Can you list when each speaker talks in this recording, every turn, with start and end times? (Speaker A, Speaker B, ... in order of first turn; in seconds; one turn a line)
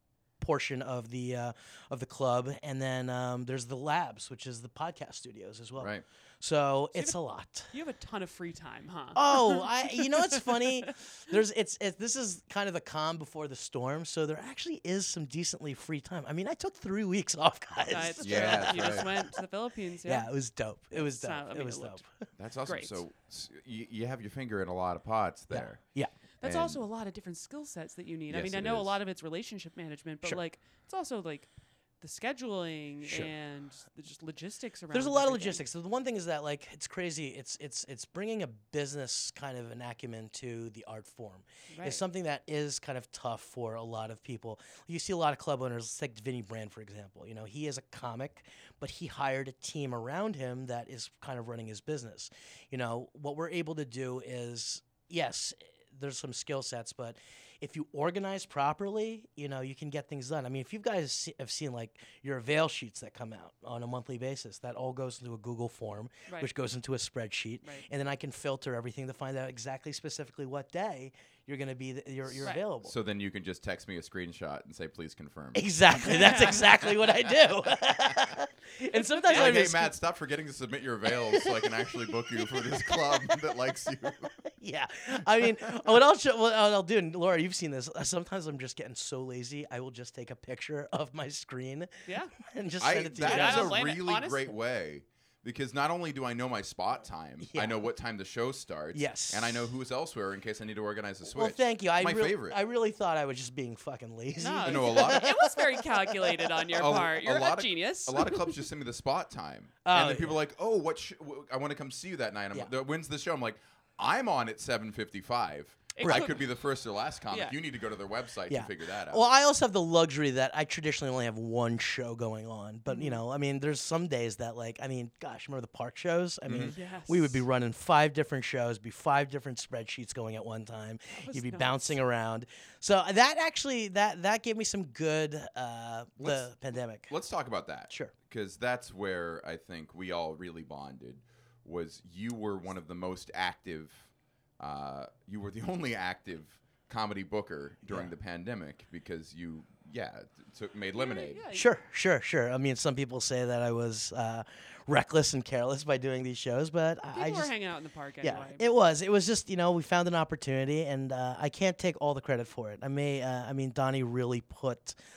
Speaker A: 0.4-7.7
Speaker B: 5.8-6.0
Speaker C: 7.7-10.4
Speaker A: 9.2-19.3
Speaker C: 17.9-20.3
Speaker B: 18.2-19.1
Speaker A: 20.1-22.3
Speaker C: 20.9-22.0
Speaker B: 22.4-26.8
Speaker C: 22.7-23.0
Speaker A: 25.5-26.1
Speaker C: 26.4-35.6
Speaker B: 28.3-29.0
Speaker A: 33.1-33.3
Speaker A: 34.9-72.9
Speaker C: 41.7-42.0
Speaker B: 72.3-77.3
Speaker A: 75.5-79.9
Speaker C: 76.0-76.6
Speaker C: 78.8-79.6
Speaker B: 79.3-84.3
Speaker A: 81.1-93.8
Speaker C: 92.1-92.3
Speaker B: 92.8-102.6
Speaker C: 93.2-94.5
Speaker A: 97.4-97.8
Speaker A: 98.9-99.7
Speaker A: 101.2-106.6
Speaker C: 104.4-108.5
Speaker B: 104.7-105.3
Speaker B: 106.7-119.2
Speaker A: 109.8-110.4
Speaker C: 115.9-116.4
Speaker A: 116.0-116.3
Speaker C: 117.3-117.5
Speaker A: 118.5-137.1
Speaker C: 122.9-123.2
Speaker B: 126.5-126.8
Speaker C: 126.7-127.4
Speaker C: 131.1-132.0
Speaker B: 136.2-136.5
Speaker B: 137.1-151.4
Speaker A: 147.9-148.1
Speaker C: 150.9-151.7
Speaker A: 151.5-157.5
Speaker C: 157.1-158.6
Speaker A: 158.2-165.0